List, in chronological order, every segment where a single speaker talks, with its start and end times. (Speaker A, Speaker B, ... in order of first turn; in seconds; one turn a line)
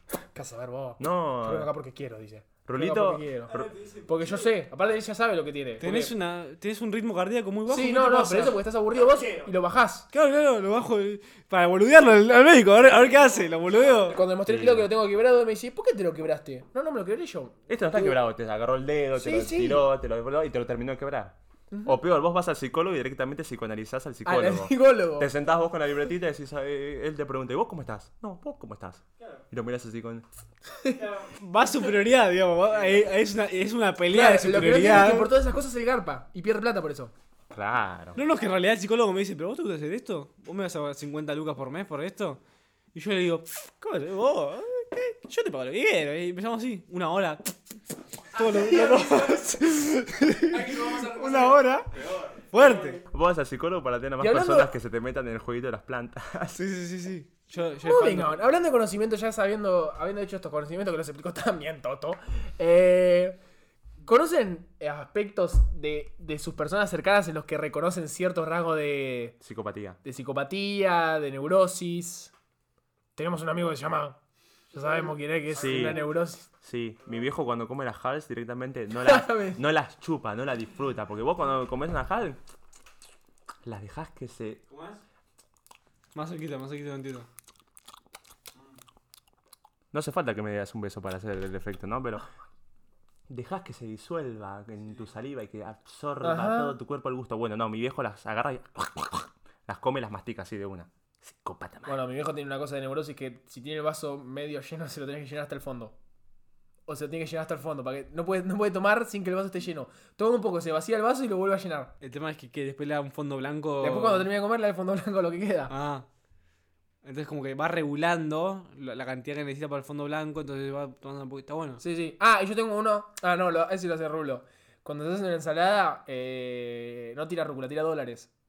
Speaker A: 0.3-3.5
Speaker B: 1.0-1.7
Speaker B: 2.6-3.7
Speaker C: 3.5-4.5
Speaker A: 4.1-6.1
Speaker C: 5.8-8.6
Speaker A: 7.7-10.1
Speaker C: 10.1-14.2
Speaker A: 14.1-18.2
Speaker B: 14.5-14.9
Speaker B: 17.7-30.3
Speaker A: 19.1-19.9
Speaker A: 21.7-22.0
Speaker A: 24.2-25.3
Speaker A: 30.7-31.2
Speaker C: 31.0-35.3
Speaker A: 34.1-37.1
Speaker B: 37.5-38.2
Speaker C: 38.2-42.4
Speaker C: 42.9-47.5
Speaker C: 48.3-53.0
Speaker A: 48.5-49.5
Speaker A: 50.6-51.3
Speaker B: 53.0-56.6
Speaker A: 54.2-54.7
Speaker C: 56.5-58.4
Speaker A: 57.9-63.4
Speaker A: 64.0-69.4
Speaker B: 69.4-70.0
Speaker A: 70.0-72.3
Speaker A: 73.2-74.2
Speaker A: 74.7-76.5
Speaker B: 75.5-76.1
Speaker B: 76.6-82.4
Speaker A: 79.0-79.6
Speaker B: 83.6-84.6
Speaker C: 84.7-85.0
Speaker C: 86.1-87.3
Speaker B: 89.9-92.3
Speaker B: 93.3-102.0
Speaker A: 96.2-96.8
Speaker A: 101.9-106.0
Speaker A: 106.9-111.9
Speaker C: 112.0-114.3
Speaker A: 113.8-115.7
Speaker C: 115.7-116.1
Speaker C: 117.0-121.8
Speaker A: 121.8-128.3